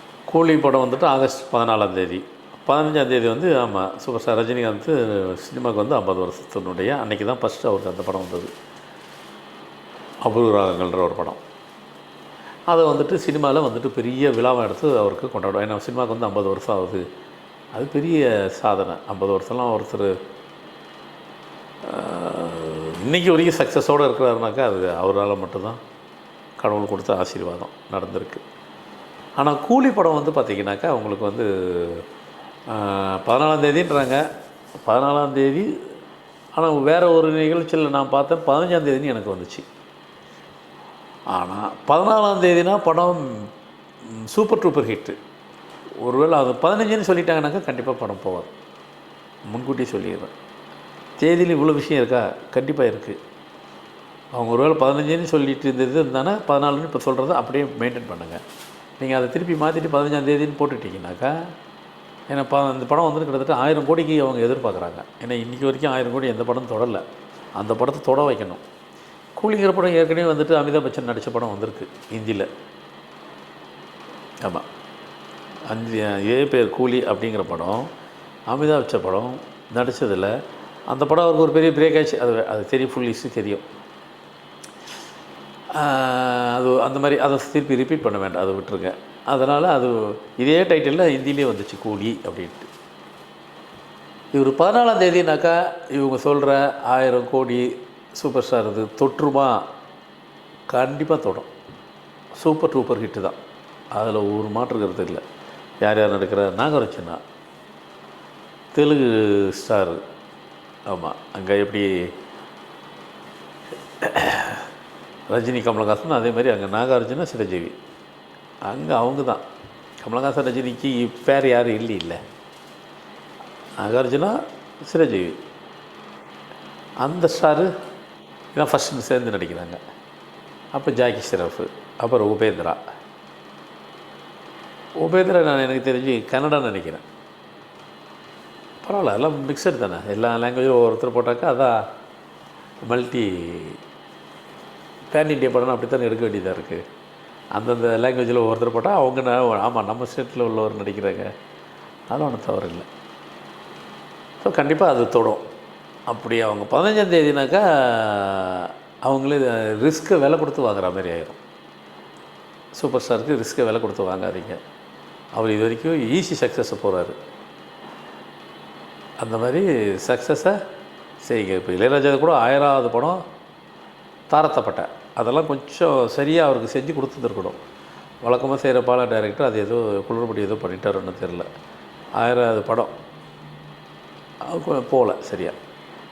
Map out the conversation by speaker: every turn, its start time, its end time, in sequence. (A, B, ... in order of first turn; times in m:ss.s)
0:00.3-0:08.5 A
0:10.2-0:11.4 A
0:12.7-0:17.0 A
0:17.7-0:20.2 A
0:21.8-0:25.8 A
0:26.6-0:28.4 A
0:29.4-0:32.0 A
0:32.7-0:34.2 A
0:34.8-0:35.7 A
0:36.6-0:39.6 A
0:41.3-0:43.4 A
0:44.1-0:45.2 A
0:46.0-0:48.5 A
0:49.5-0:50.3 A
0:51.2-0:53.2 A
0:54.3-0:58.4 A
0:59.0-1:01.3 A
1:02.3-1:07.0 A
1:07.6-1:08.6 A
1:09.4-1:12.5 A
1:15.7-1:17.9 A
1:18.5-1:20.3 A
1:20.9-1:23.6 A
1:25.7-1:32.7 A
1:34.3-1:39.6 A
1:40.7-1:41.5 A
1:42.4-1:43.4 A
1:43.9-1:45.2 A
1:45.8-1:47.2 A
1:48.7-1:50.0 A
1:50.9-1:52.1 A
1:54.0-1:54.7 A
1:55.3-1:57.8 A
1:58.7-1:59.4 A
2:00.0-2:02.2 A
2:03.8-2:05.4 A
2:07.0-2:07.7 A
2:08.5-2:09.8 A
2:10.7-2:12.8 A
2:15.0-2:17.0 A
2:18.8-2:21.8 A
2:22.8-2:23.8 A
2:25.1-2:26.8 A
2:27.6-2:31.3 A
2:32.1-2:32.9 A
2:34.4-2:35.4 A
2:36.1-2:41.4 A
2:42.7-2:44.6 A
2:45.4-2:47.2 A
2:49.2-2:50.6 A
2:51.2-2:53.2 A
2:54.3-2:57.6 A
2:58.2-3:01.5 A
3:02.2-3:02.9 A
3:04.4-3:05.6 A